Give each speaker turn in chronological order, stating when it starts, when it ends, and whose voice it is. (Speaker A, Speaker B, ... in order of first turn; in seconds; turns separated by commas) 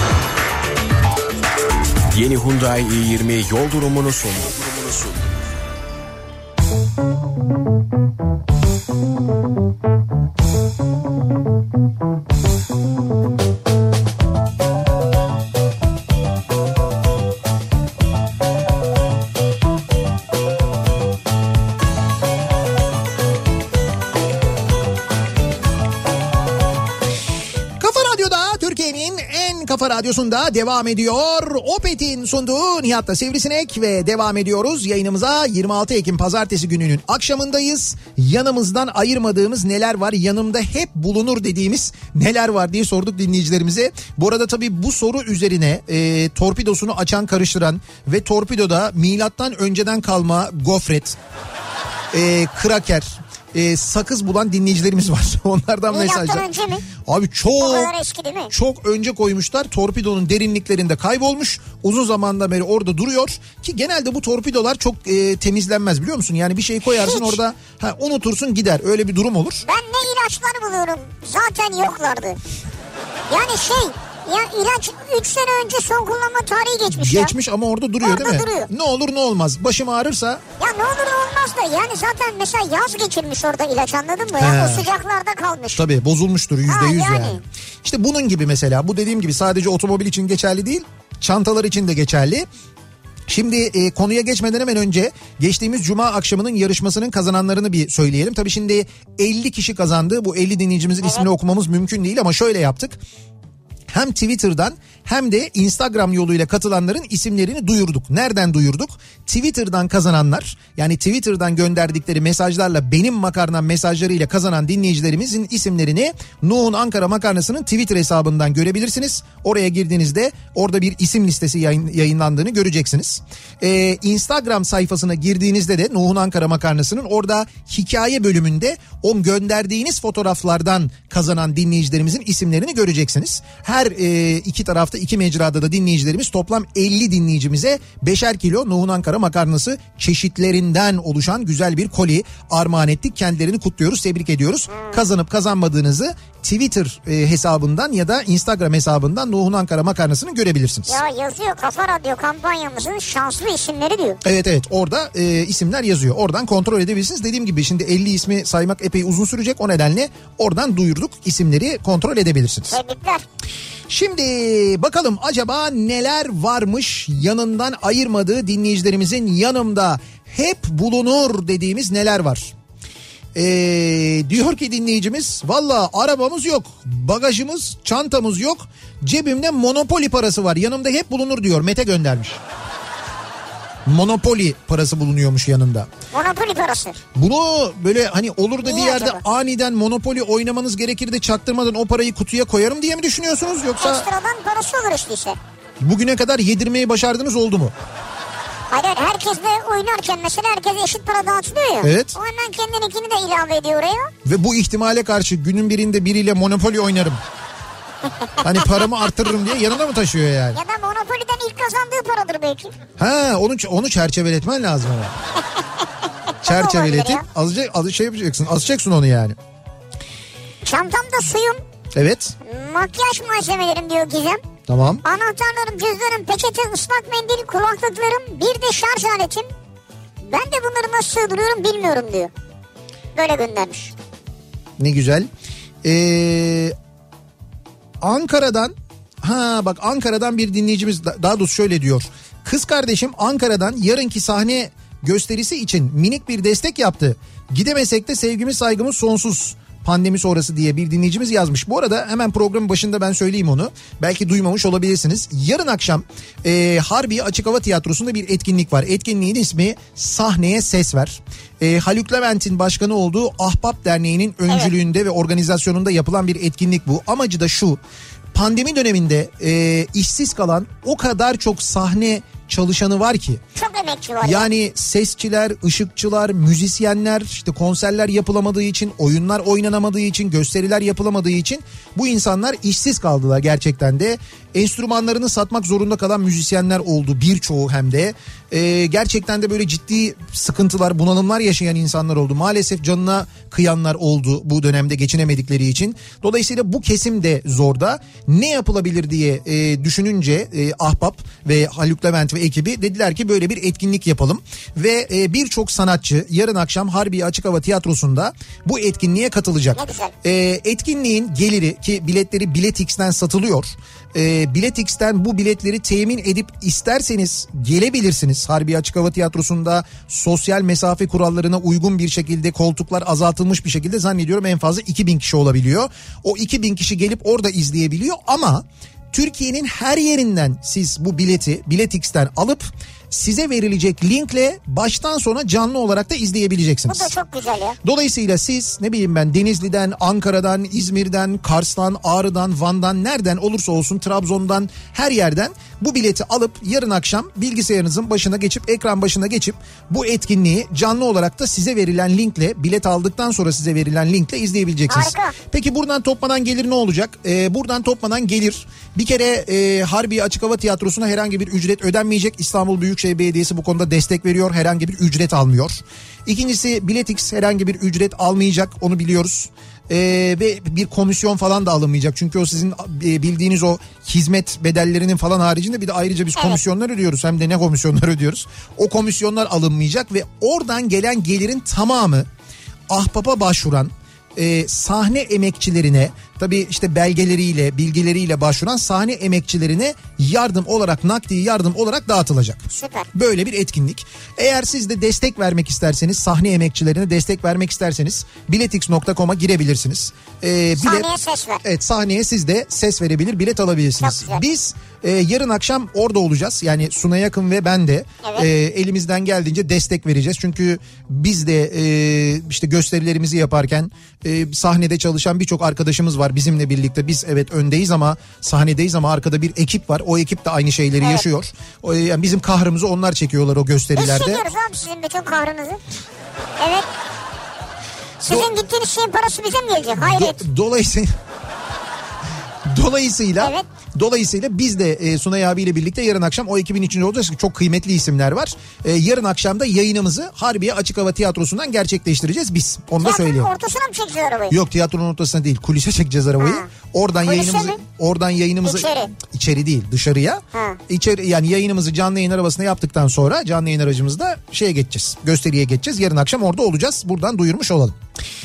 Speaker A: 2.1-5.5, Speaker B: 27.8-51.2, Speaker B: 52.1-57.9, Speaker C: 55.9-56.9, Speaker C: 57.6-58.5, Speaker B: 58.5-69.6, Speaker C: 66.9-67.4, Speaker C: 69.6-72.4, Speaker C: 73.3-77.3, Speaker B: 76.9-80.4, Speaker C: 78.0-78.7, Speaker C: 80.6-85.8, Speaker B: 84.4-84.9, Speaker B: 85.8-92.5, Speaker C: 86.7-87.4, Speaker B: 93.3-103.0, Speaker C: 101.0-101.3, Speaker B: 103.9-151.0, Speaker C: 144.7-145.0, Speaker C: 150.9-154.2, Speaker B: 154.2-162.8, Speaker C: 162.7-163.2, Speaker B: 163.9-172.5, Speaker B: 173.3-182.4, Speaker B: 183.9-185.9, Speaker C: 186.1-187.0, Speaker B: 187.1-194.1, Speaker C: 188.6-189.2, Speaker C: 193.8-195.4, Speaker B: 195.8-197.7, Speaker C: 198.7-204.1, Speaker B: 201.8-202.1, Speaker B: 204.2-207.2, Speaker B: 208.4-210.6, Speaker C: 208.6-208.9, Speaker C: 210.5-212.7, Speaker B: 213.0-215.1, Speaker C: 216.4-217.2, Speaker B: 216.4-219.4, Speaker C: 220.6-221.6, Speaker B: 221.9-222.3, Speaker C: 222.4-224.4, Speaker B: 224.7-225.0, Speaker C: 225.0-229.5, Speaker C: 230.2-232.3, Speaker C: 233.1-233.9, Speaker B: 234.8-235.3, Speaker B: 235.8-236.8, Speaker B: 238.0-267.8, Speaker B: 268.3-273.4, Speaker C: 273.6-274.5, Speaker B: 274.2-337.1, Speaker C: 309.8-310.1, Speaker C: 336.9-337.8, Speaker B: 337.8-382.3, Speaker C: 354.9-355.4, Speaker C: 376.4-376.6, Speaker B: 382.9-401.1, Speaker C: 392.7-393.1, Speaker C: 400.8-401.6, Speaker B: 401.6-424.4, Speaker C: 404.0-404.4, Speaker C: 408.2-408.5, Speaker C: 423.9-425.8, Speaker C: 426.6-426.9, Speaker C: 428.2-430.4, Speaker B: 430.0-431.1, Speaker B: 432.6-443.5, Speaker C: 433.4-433.6, Speaker C: 443.0-444.6, Speaker B: 444.5-457.9, Speaker C: 446.4-446.7, Speaker C: 447.2-447.8, Speaker C: 448.6-449.1, Speaker C: 450.5-450.8